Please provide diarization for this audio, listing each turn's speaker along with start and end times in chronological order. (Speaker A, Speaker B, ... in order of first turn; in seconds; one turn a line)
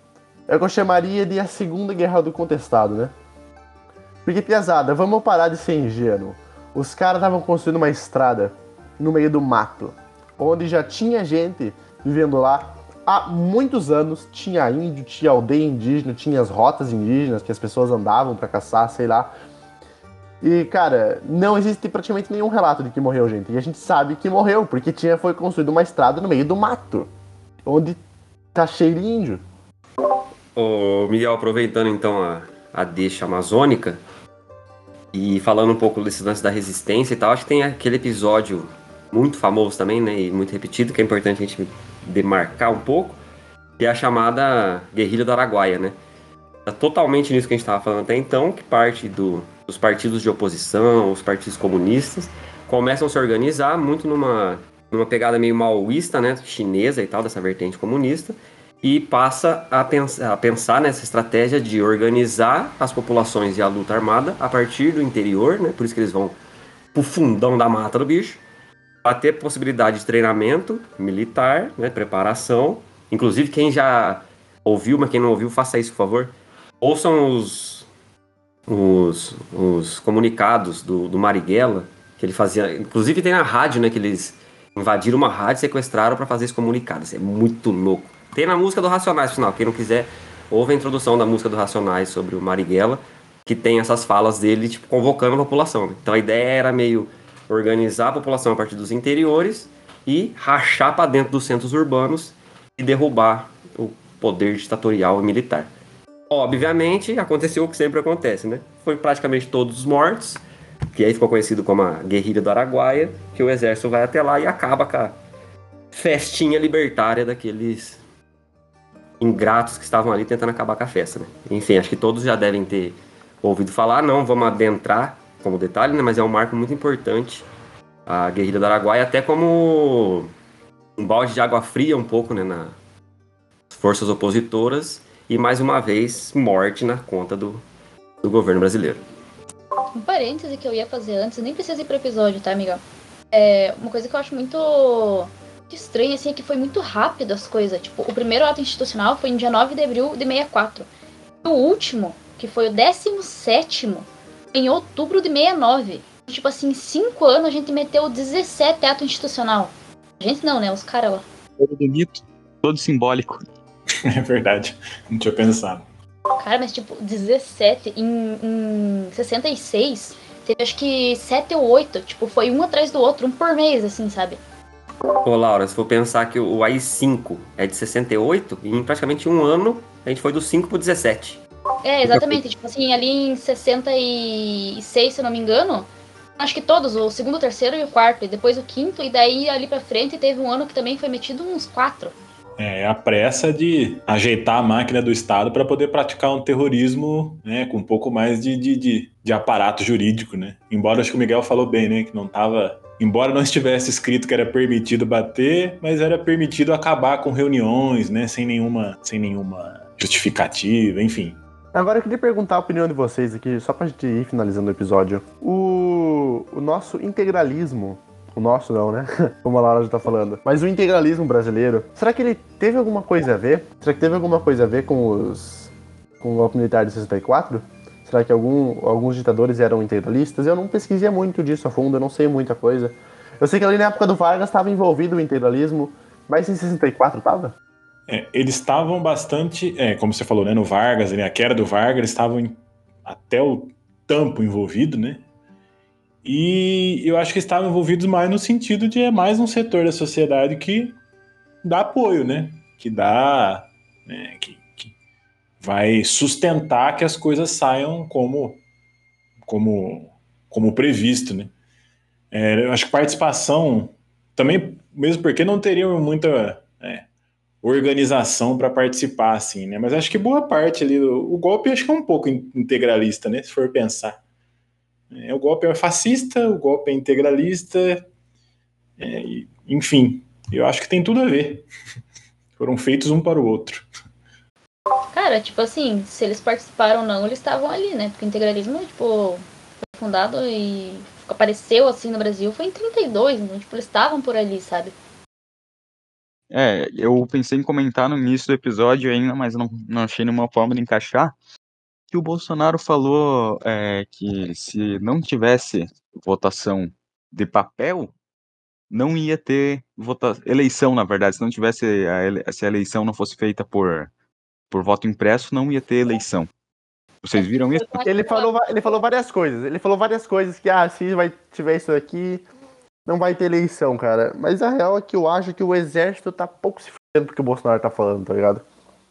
Speaker A: 0.5-3.1
Speaker A: 4.2-19.3
Speaker A: 20.4-27.1
Speaker A: 27.6-28.0
Speaker A: 28.5-29.4
Speaker B: 30.6-34.0
Speaker B: 35.1-43.2
Speaker B: 43.8-46.0
Speaker B: 46.6-66.4
Speaker B: 66.9-68.4
Speaker B: 69.0-77.9
Speaker B: 78.7-105.7
Speaker B: 106.3-110.4
Speaker B: 110.9-115.2
Speaker B: 115.9-118.0
Speaker B: 119.2-127.5
Speaker B: 128.1-130.3
Speaker B: 131.0-132.7
Speaker B: 133.7-137.6
Speaker B: 138.2-139.0
Speaker C: 139.9-150.9
Speaker C: 151.4-161.2
Speaker D: 161.6-163.4
Speaker E: 164.0-165.8
Speaker C: 166.4-174.4
Speaker B: 175.2-181.4
Speaker C: 181.8-192.1
Speaker B: 182.1-182.4
Speaker E: 192.6-211.4
Speaker A: 211.7-237.5
Speaker E: 238.1-245.2
Speaker E: 246.2-250.9
Speaker E: 251.6-254.9
Speaker E: 255.6-258.6
Speaker E: 259.5-261.5
Speaker E: 262.3-267.0
Speaker E: 267.6-274.2
Speaker E: 275.1-278.1
Speaker E: 279.0-281.6
Speaker E: 282.6-283.9
Speaker C: 285.1-294.9
Speaker D: 296.5-301.3
Speaker D: 302.1-308.1
Speaker D: 308.9-314.1
Speaker D: 314.7-316.5
Speaker D: 317.2-318.0
Speaker C: 317.4-318.5
Speaker A: 318.0-322.4
Speaker A: 323.1-328.6